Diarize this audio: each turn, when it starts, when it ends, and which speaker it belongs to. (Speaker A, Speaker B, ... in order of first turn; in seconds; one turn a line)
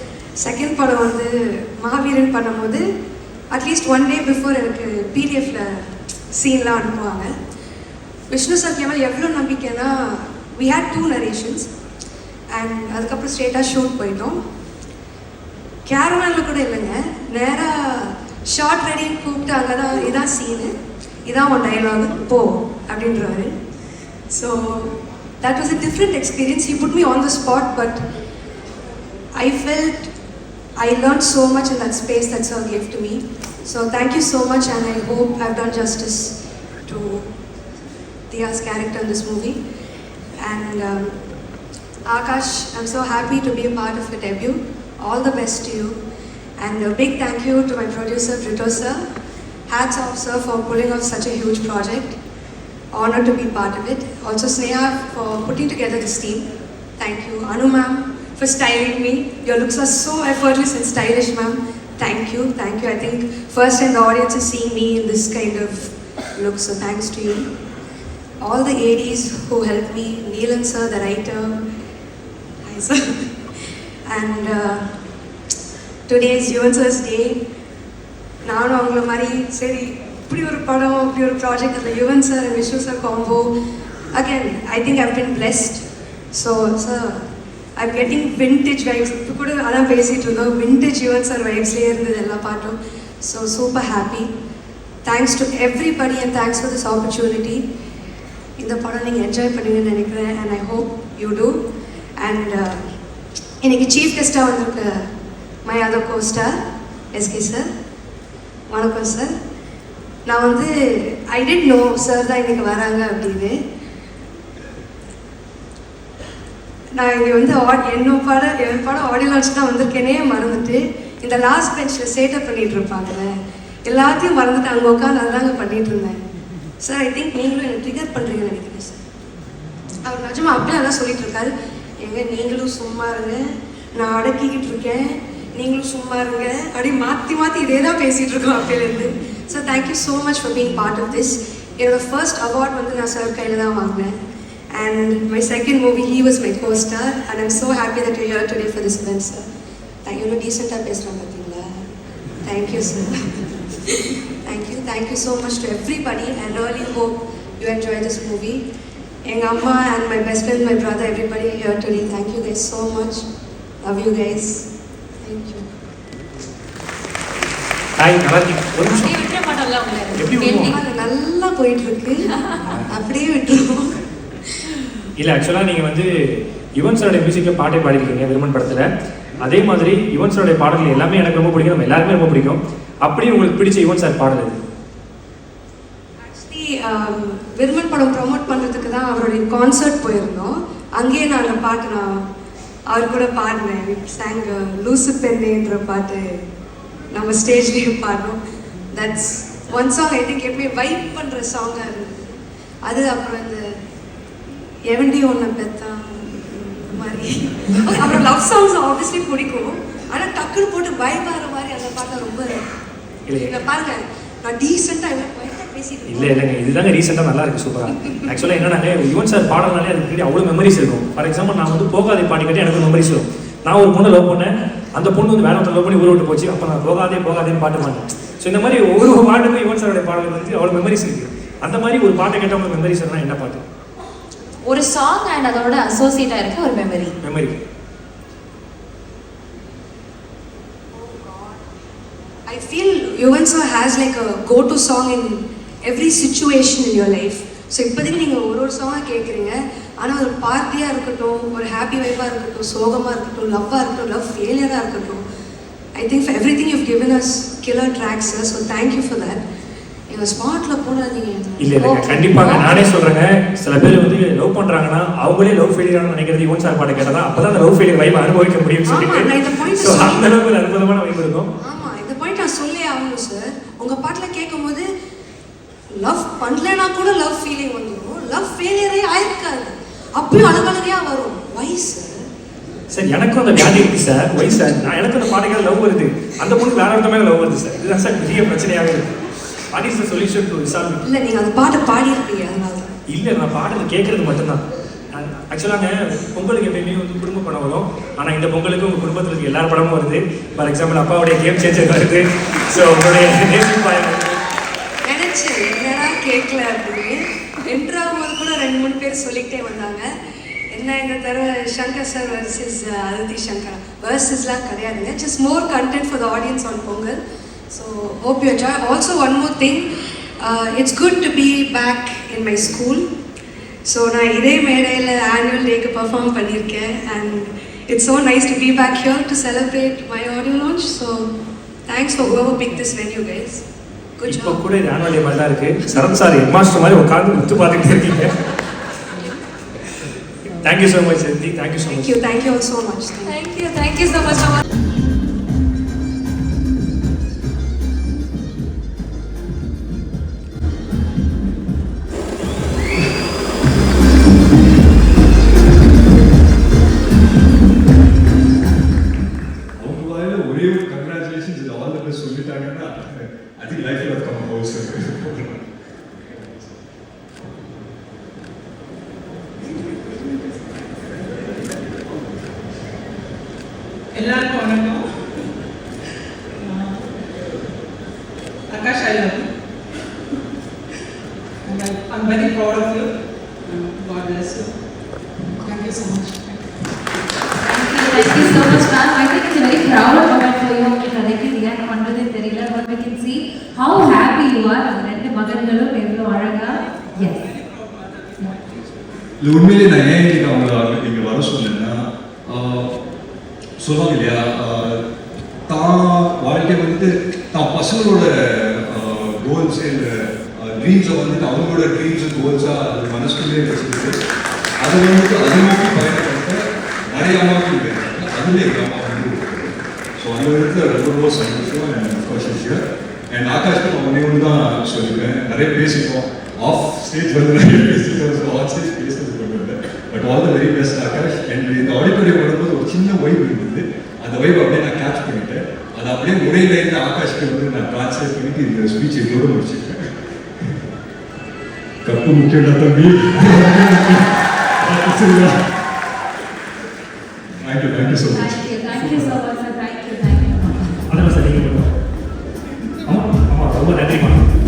Speaker A: 0.4-2.9
Speaker A: 3.5-7.3
Speaker A: 8.3-11.7
Speaker A: 12.5-14.4
Speaker A: 15.8-20.7
Speaker A: 21.2-23.5
Speaker A: 24.3-28.0
Speaker A: 29.4-30.1
Speaker A: 30.8-37.3
Speaker A: 38.3-39.6
Speaker A: 40.4-41.1
Speaker A: 42.0-45.9
Speaker A: 46.6-49.0
Speaker A: 49.7-52.2
Speaker A: 52.9-56.5
Speaker A: 57.0-67.5
Speaker A: 68.4-71.6
Speaker A: 72.6-73.2
Speaker A: 74.1-74.9
Speaker A: 76.1-77.4
Speaker A: 78.4-83.5
Speaker A: 84.1-87.2
Speaker A: 87.8-94.3
Speaker A: 95.0-97.6
Speaker A: 98.6-101.5
Speaker A: 102.2-102.8
Speaker A: 103.6-105.0
Speaker A: 105.6-106.6
Speaker A: 107.1-107.7
Speaker A: 108.7-109.3
Speaker A: 110.3-113.6
Speaker A: 116.9-123.3
Speaker A: 123.8-126.2
Speaker A: 126.8-129.0
Speaker A: 130.0-144.1
Speaker A: 144.7-149.4
Speaker A: 150.0-151.7
Speaker A: 152.4-158.6
Speaker A: 159.2-163.2
Speaker A: 163.8-164.7
Speaker A: 165.2-165.7
Speaker B: 168.0-169.2
Speaker C: 168.8-170.8
Speaker B: 170.1-170.7
Speaker A: 170.5-174.0
Speaker A: 174.5-174.8
Speaker B: 175.2-178.8
Speaker B: 179.4-184.6
Speaker A: 186.2-192.2
Speaker A: 192.9-196.2
Speaker A: 197.1-198.4
Speaker A: 198.9-203.7
Speaker A: 204.9-212.6
Speaker B: 213.3-213.6
Speaker A: 213.4-216.4
Speaker B: 216.1-233.6
Speaker C: 234.6-237.2
Speaker B: 237.2-237.6
Speaker A: 240.9-241.6
Speaker A: 242.5-255.2
Speaker A: 256.0-259.4
Speaker A: 260.1-262.8
Speaker B: 261.6-271.5
Speaker A: 268.9-270.3
Speaker A: 271.6-274.9
Speaker A: 275.9-282.2
Speaker B: 282.9-289.1
Speaker B: 289.7-291.0
Speaker A: 291.0-292.9
Speaker B: 293.1-294.6
Speaker B: 295.1-304.4
Speaker A: 305.0-310.1
Speaker A: 310.7-317.2
Speaker A: 317.7-319.9
Speaker A: 320.4-323.0
Speaker A: 323.8-331.3
Speaker A: 331.9-333.6
Speaker A: 334.2-334.6
Speaker B: 334.3-338.3
Speaker B: 340.6-342.1
Speaker A: 341.9-343.4
Speaker C: 343.2-344.5
Speaker D: 359.8-366.8
Speaker E: 374.1-375.0
Speaker E: 376.5-377.1
Speaker E: 378.7-379.5
Speaker E: 381.6-383.1
Speaker E: 383.6-384.7
Speaker E: 385.6-386.6
Speaker C: 387.6-397.5
Speaker D: 399.4-403.0
Speaker D: 403.8-405.0
Speaker D: 405.7-414.2
Speaker D: 414.8-440.1
Speaker D: 442.0-445.6
Speaker D: 447.6-448.7
Speaker C: 448.3-451.0
Speaker B: 449.0-449.3
Speaker B: 451.1-451.9
Speaker B: 453.1-454.4